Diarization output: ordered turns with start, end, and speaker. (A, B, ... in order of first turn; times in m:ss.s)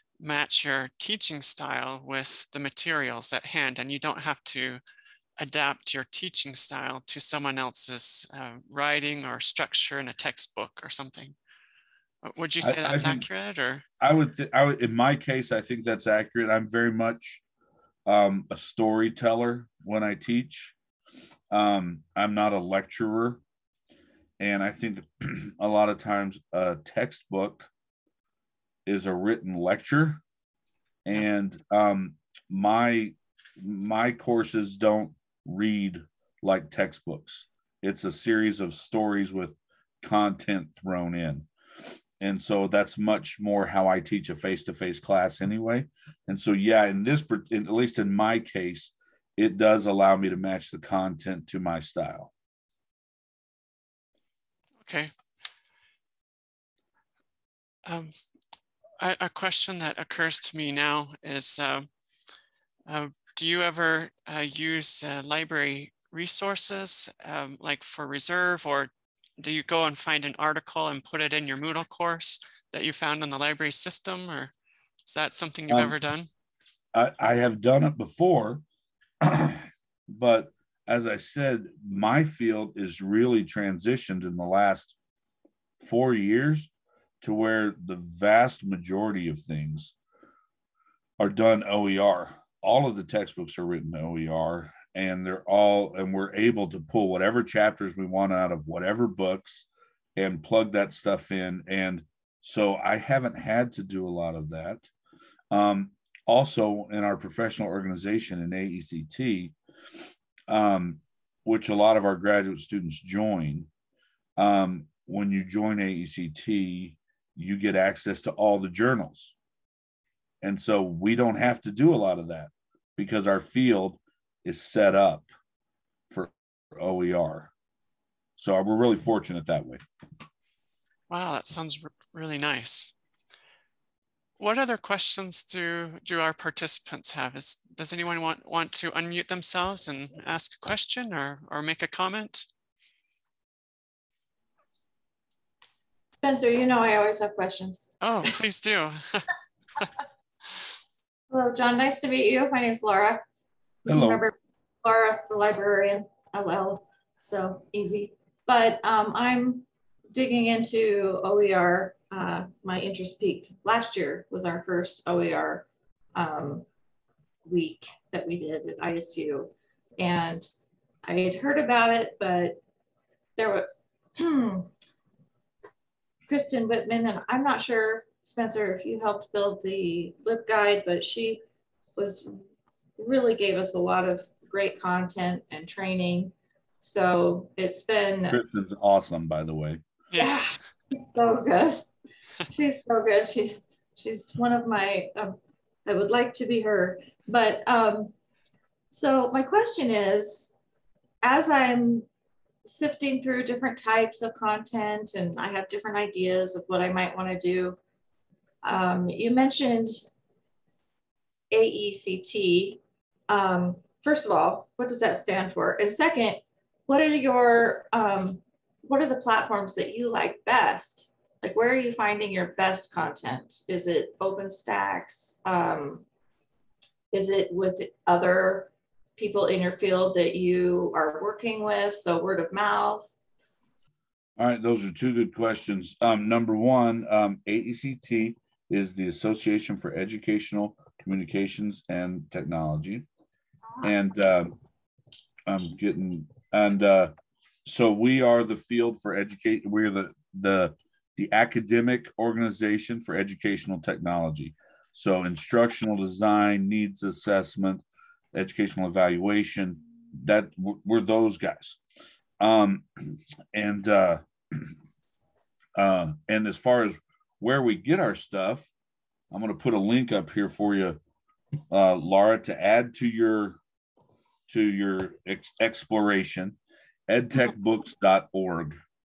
0:00.2-0:04.8 A
0:05.4-0:11.4 A
0:12.2-0:13.8 A
0:12.6-0:13.3 B
0:14.0-0:17.4 B
0:18.1-0:20.8 B
0:21.5-0:23.4 B
0:24.4-0:27.7 B
0:28.9-0:30.2 B
0:31.0-0:41.5 B
0:42.2-0:52.3 B
0:54.8-0:55.1 A
0:57.9-0:58.1 A
0:59.0-1:01.9 A
1:02.9-1:14.5 A
1:15.1-1:16.3 A
1:16.9-1:18.6 B
1:19.2-1:25.0 B
1:25.8-1:26.7 B
1:27.2-1:30.0 B
1:31.2-1:44.9 B
1:45.5-1:49.6 B
1:50.5-1:53.7 B
1:54.4-1:59.4 B
2:00.4-2:05.3 B
2:06.1-2:07.5 B
2:08.4-2:09.8 B
2:11.1-2:12.9 A
2:14.4-2:22.5 A
2:26.2-2:28.0 C
2:28.0-2:29.3 A
2:31.3-2:33.2 C
2:33.8-2:46.7 C
2:33.9-2:34.2 B
2:47.5-2:50.5 C
2:51.0-2:52.6 C
2:53.4-2:54.7 C
2:56.3-3:01.4 C
3:02.0-3:02.4 C
3:03.0-3:08.4 C
3:08.3-3:09.8 B
3:10.1-3:10.6 A
3:10.2-3:11.9 C
3:12.5-3:18.1 C
3:18.9-3:20.5 C
3:21.2-3:22.1 C
3:22.6-3:27.8 C
3:28.6-3:30.1 C
3:31.5-3:46.1 C
3:47.1-3:53.1 C
3:54.4-4:03.1 B
4:03.8-4:04.6 B
4:05.5-4:07.1 B
4:07.6-4:21.8 B
4:22.4-4:24.8 B
4:25.8-4:28.7 B
4:29.3-4:31.0 B
4:31.7-4:33.6 B
4:34.5-4:36.6 B
4:37.1-4:38.8 B